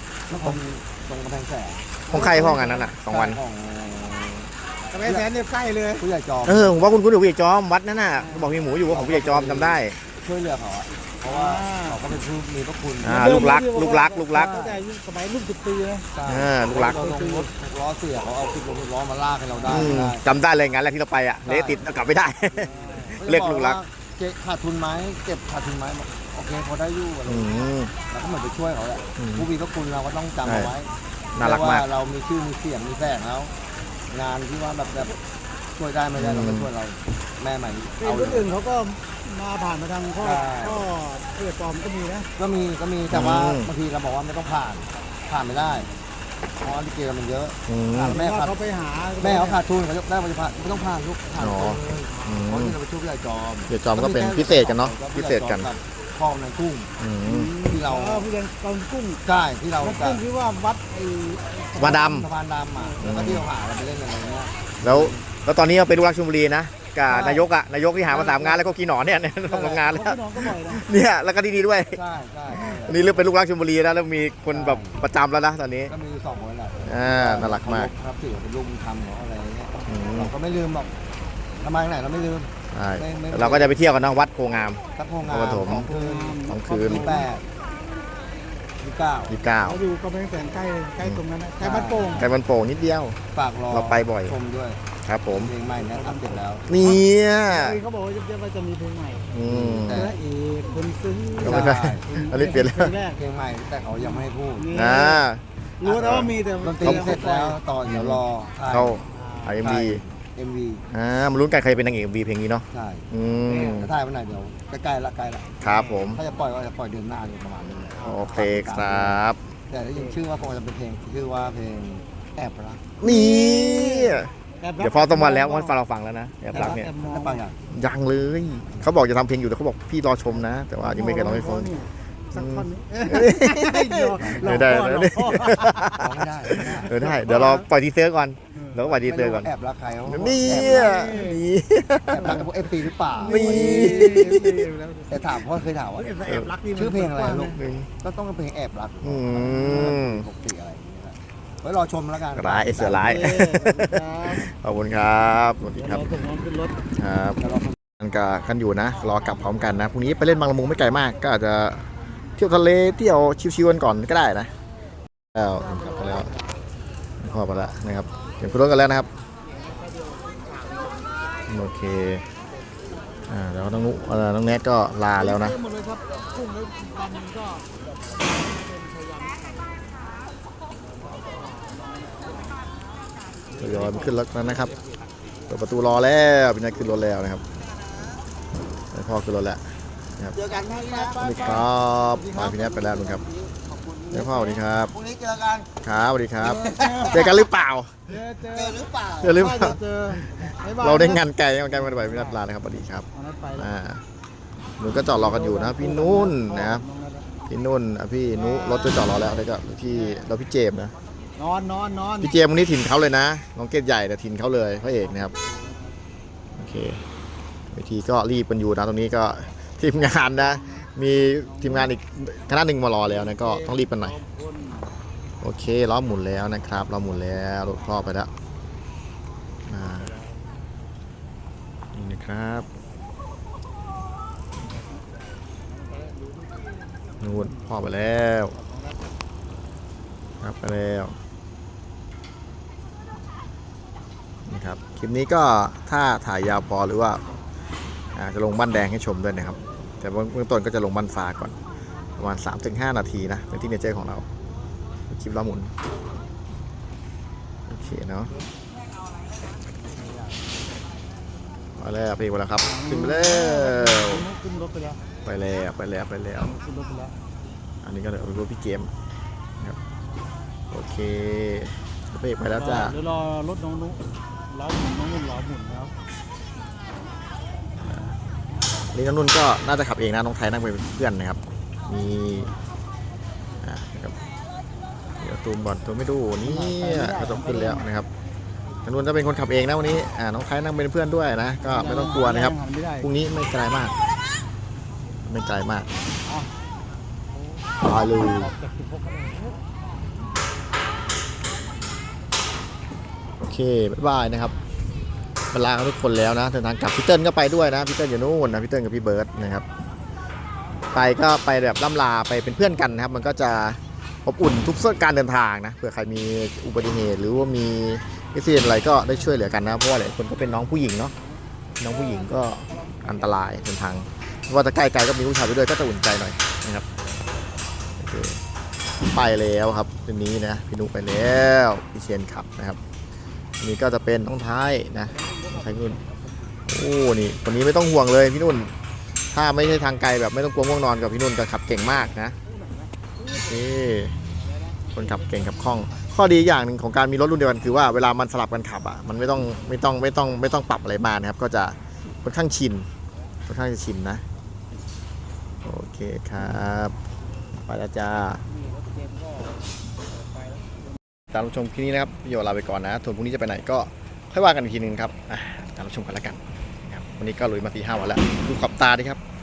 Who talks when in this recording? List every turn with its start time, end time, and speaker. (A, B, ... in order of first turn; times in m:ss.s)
0:00.3-0:05.3 A
0:02.1-0:02.9 B
0:02.1-0:03.4 C
0:04.9-0:06.0 B
0:06.0-0:06.9 A
0:06.5-0:10.0 C
0:08.2-0:08.6 B
0:08.8-0:13.6 A
0:11.2-0:12.0 B
0:13.0-0:14.5 C
0:13.1-0:16.1 B
0:14.3-0:14.8 A
0:16.1-0:20.2 A
0:16.3-0:17.0 C
0:16.8-0:17.5 B
0:19.7-0:23.8 C
0:21.4-0:21.8 A
0:22.5-0:23.2 B
0:22.7-0:33.5 A
0:27.3-0:27.9 C
0:29.2-0:29.5 C
0:30.4-0:30.7 C
0:31.3-0:31.8 C
0:34.1-0:35.2 A
0:35.8-0:38.5 A
0:36.2-0:36.7 C
0:38.0-0:42.3 B
0:40.2-0:40.9 A
0:42.4-0:45.9 A
0:43.1-0:43.7 C
0:46.6-0:48.6 A
0:47.7-0:48.2 C
0:47.9-0:49.6 B
0:49.2-0:56.9 A
0:51.4-0:52.8 C
0:52.1-0:52.4 B
0:53.7-0:55.7 C
0:57.0-0:57.6 C
0:57.2-0:59.2 B
0:57.6-0:58.3 A
0:59.2-1:00.2 A
0:59.8-1:02.0 B
1:01.8-1:05.0 A
1:01.8-1:02.3 C
1:02.7-1:03.1 B
1:03.0-1:03.5 C
1:04.8-1:15.9 C
1:07.1-1:07.5 A
1:08.1-1:08.6 A
1:08.1-1:08.5 B
1:09.5-1:10.8 B
1:11.9-1:13.4 A
1:14.5-1:15.0 A
1:15.9-1:20.9 A
1:16.8-1:17.9 C
1:19.9-1:20.3 C
1:21.6-1:23.8 A
1:22.7-1:25.9 C
1:25.0-1:27.4 A
1:25.7-1:27.3 B
1:26.4-1:27.1 C
1:28.8-1:29.4 A
1:29.3-1:29.8 C
1:29.6-1:32.3 B
1:31.6-1:32.3 A
1:32.2-1:34.4 C
1:33.3-1:34.8 A
1:35.0-1:35.5 C
1:35.3-1:36.7 A
1:35.8-1:39.3 B
1:36.7-1:37.8 C
1:39.3-1:40.1 C
1:39.4-1:40.2 A
1:39.9-1:43.2 B
1:41.4-1:43.0 C
1:41.4-1:42.1 A
1:43.1-1:44.8 A
1:44.0-1:45.3 B
1:44.7-1:47.2 C
1:45.8-1:47.6 B
1:46.1-1:49.0 A
1:47.9-1:50.0 C
1:49.1-1:49.6 B
1:49.6-1:50.8 A
1:50.9-1:53.9 C
1:52.7-1:53.1 A
1:53.5-1:53.9 B
1:53.6-2:03.0 A
1:55.6-1:56.2 C
1:55.6-1:56.1 B
1:58.0-1:59.4 C
2:03.0-2:06.9 C
2:03.0-2:05.7 B
2:06.5-2:07.4 B
2:07.0-2:07.6 A
2:07.7-2:11.8 C
2:10.8-2:17.7 B
2:12.3-2:19.5 C
2:14.2-2:14.7 A
2:16.0-2:16.9 A
2:18.9-2:21.0 A
2:20.1-2:22.7 C
2:20.2-2:21.4 B
2:22.1-2:24.4 A
2:23.1-2:25.4 B
2:23.2-2:24.6 C
2:25.1-2:33.3 A
2:26.0-2:27.6 B
2:26.2-2:26.5 C
2:27.4-2:27.9 C
2:29.0-2:30.2 C
2:32.4-2:36.1 C
2:32.9-2:34.5 B
2:35.8-2:36.8 B
2:37.0-2:37.4 C
2:37.4-2:37.8 A
2:38.0-2:44.5 C
2:45.4-2:46.3 C
2:45.6-2:46.4 B
2:47.2-2:49.1 C
2:49.7-2:50.9 B
2:51.5-2:52.2 C
2:53.3-2:55.6 C
2:55.2-2:57.7 B
2:58.5-2:59.7 B
3:01.3-3:01.7 B
3:03.6-3:04.7 B
3:03.6-3:04.8 C
3:05.5-3:07.4 C
3:08.9-3:09.6 C
3:10.4-3:11.5 A
3:10.6-3:13.4 B
3:11.2-3:13.2 C
3:13.4-3:15.8 A
3:14.1-3:14.9 C
3:15.8-3:18.0 C
3:16.4-3:17.4 B
3:16.6-3:17.4 A
3:18.1-3:22.4 B
3:18.5-3:19.4 A
3:19.2-3:24.0 C
3:23.1-3:23.7 B
3:24.8-3:26.8 C
3:25.0-3:27.3 B
3:27.5-3:30.9 C
3:28.3-3:30.3 B
3:31.4-3:32.3 B
3:32.2-3:35.3 C
3:35.0-3:35.9 B
3:36.6-3:37.0 C
3:37.7-3:44.2 C
3:40.2-3:42.0 B
3:43.0-3:44.9 B
3:45.4-3:48.3 C
3:49.7-3:50.2 C
3:51.9-3:52.7 C
3:57.2-3:58.6 C
4:00.4-4:01.2 C
4:04.5-4:07.2 C
4:08.2-4:11.6 C
4:12.2-4:14.3 C
4:15.1-4:15.7 C
4:17.7-4:18.3 C
4:21.8-4:24.3 C
4:22.6-4:25.0 B
4:25.2-4:26.6 C
4:26.4-4:27.1 B
4:27.8-4:28.9 C
4:30.7-4:33.0 C
4:32.5-4:35.9 B
4:37.8-4:38.2 C
4:38.9-4:42.5 C
4:43.6-4:44.2 C
4:45.2-4:48.1 C
4:46.4-4:47.8 B
4:48.9-4:54.0 C
4:51.6-4:53.1 B
4:55.2-4:55.9 C
4:57.8-4:58.5 C
4:57.8-4:59.6 B
5:03.4-5:04.6 C
5:05.5-5:09.6 C
5:10.9-5:21.1 C
5:21.8-5:26.8 C
5:28.0-5:28.4 C
5:29.0-5:32.8 C
5:33.6-5:36.0 C
5:35.2-5:36.1 B
5:36.7-5:38.7 C
5:39.3-5:42.4 C
5:43.3-5:44.2 C
5:44.9-5:45.7 B
5:44.9-5:52.9 C
5:53.5-5:54.2 C
5:55.6-5:57.0 C
5:57.6-5:58.4 C
6:01.3-6:09.2 C